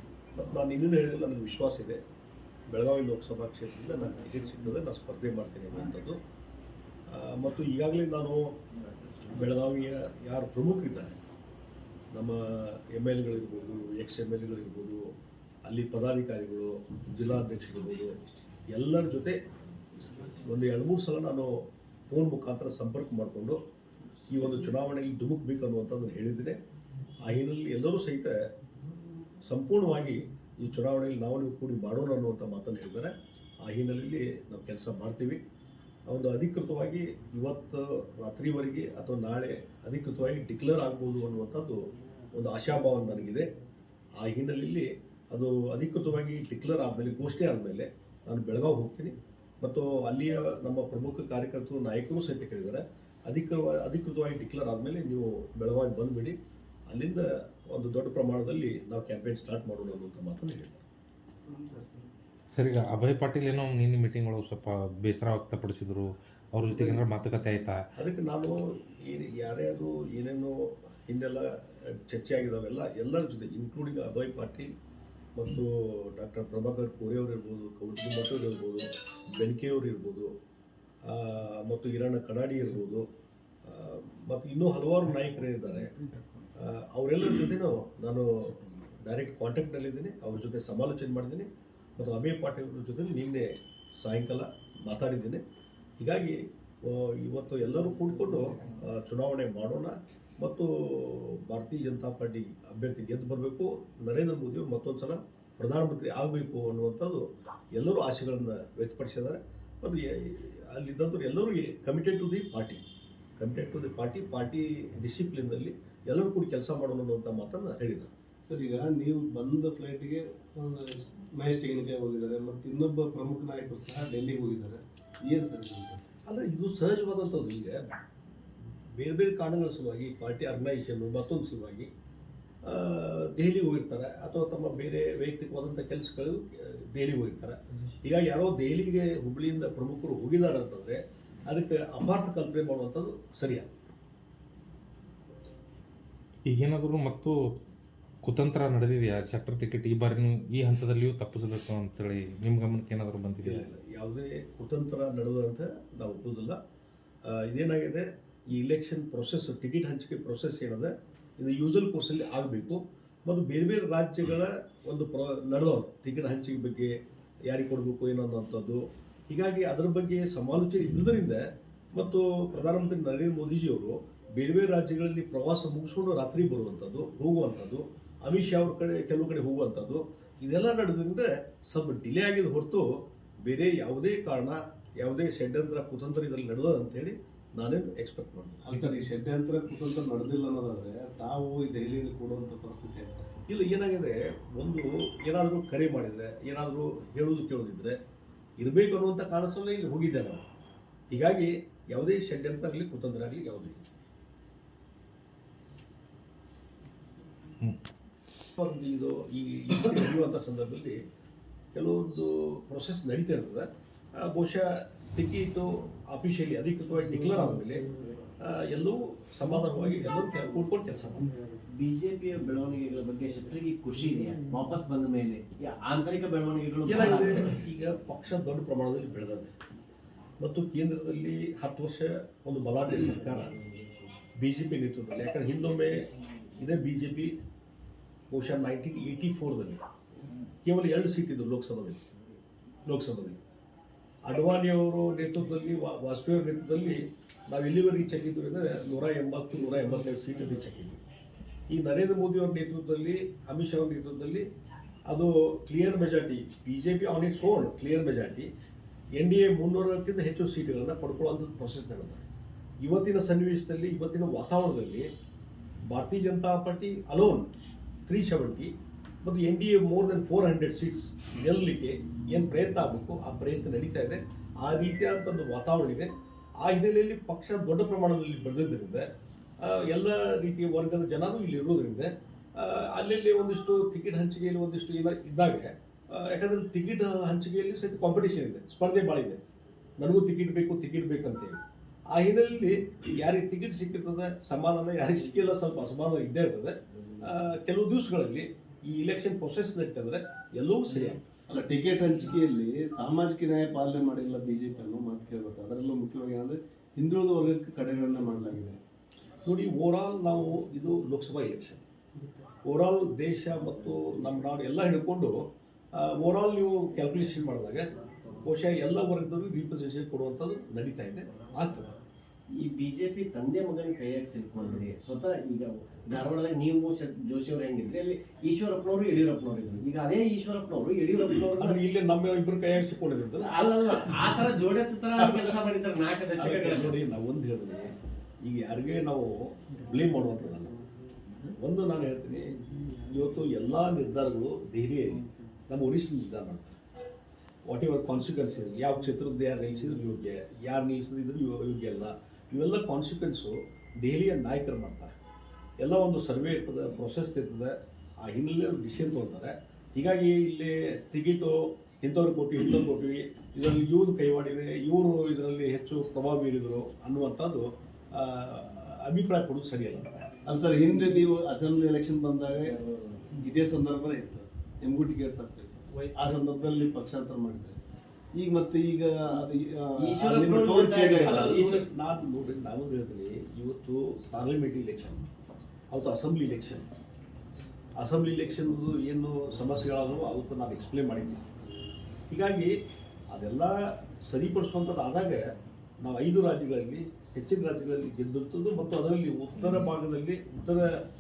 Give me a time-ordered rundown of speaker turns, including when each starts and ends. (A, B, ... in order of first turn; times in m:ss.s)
0:00.4-0:02.0 A
0:02.7-0:06.2 A
0:07.1-0:08.6 A
0:09.3-0:11.2 A
0:12.1-0:15.0 A
0:15.6-0:18.1 A
0:18.7-0:19.4 A
0:20.2-0:23.6 A
0:24.3-0:26.6 A
0:27.2-0:28.3 A
0:29.4-0:33.1 A
0:33.6-0:35.4 A
0:36.1-0:43.5 A
0:44.2-0:56.4 A
0:56.9-1:00.8 A
1:01.5-1:02.1 B
1:02.5-1:07.8 C
1:08.0-1:11.5 A
1:12.1-1:14.7 A
1:15.3-1:20.3 A
1:21.1-1:23.0 A
1:23.6-1:25.9 A
1:26.6-1:33.5 A
1:34.0-1:35.4 A
1:36.0-1:52.8 A
1:53.4-1:58.1 A
1:58.4-2:06.0 B
2:06.3-2:07.8 A
2:08.9-2:11.9 A
2:12.6-2:23.7 A
2:26.4-2:27.5 C
2:28.2-2:33.6 C
2:33.4-2:36.6 A
2:37.3-2:46.9 A
2:47.5-2:51.4 A
2:51.9-3:02.9 A
3:03.4-3:08.6 A
3:08.6-3:13.3 B
3:13.5-3:17.9 A
3:18.6-3:20.4 A
3:21.1-3:23.8 A
3:28.6-3:31.0 A
3:31.7-3:37.8 A
3:38.4-3:41.3 A
3:41.8-3:47.4 D
3:46.8-3:49.5 A
3:50.4-3:53.6 A
3:54.4-3:56.0 A
3:56.6-3:57.3 A
3:58.3-3:59.8 A
4:00.6-4:02.1 A
4:02.8-4:03.4 A
4:04.2-4:11.0 A
4:11.7-4:14.4 A
4:15.1-4:18.5 A
4:19.2-4:22.2 A
4:22.8-4:25.1 A
4:25.9-4:27.5 A
4:28.1-4:36.1 A
4:36.6-4:39.0 A
4:39.6-4:49.4 A
4:50.0-5:01.2 A
5:01.5-5:08.8 B
5:09.4-5:11.8 A
5:12.6-5:15.3 A
5:16.0-5:17.9 A
5:18.4-5:22.0 A
5:22.6-5:31.8 D
5:31.6-5:33.5 A
5:33.4-5:36.9 D
5:36.4-5:37.9 A
5:38.4-5:40.7 A
5:41.6-5:42.5 A
5:43.1-5:46.8 A
5:47.6-5:55.1 A
5:55.8-5:57.7 A
5:58.2-6:10.3 A
6:10.4-6:12.8 B
6:12.6-6:13.2 D
6:13.4-6:17.8 B
6:18.3-6:21.5 B
6:20.0-6:21.8 D
6:21.2-6:25.2 A
6:25.9-6:26.8 A
6:28.0-6:31.4 A
6:32.3-6:32.7 A
6:33.3-6:35.4 A
6:36.0-6:40.9 A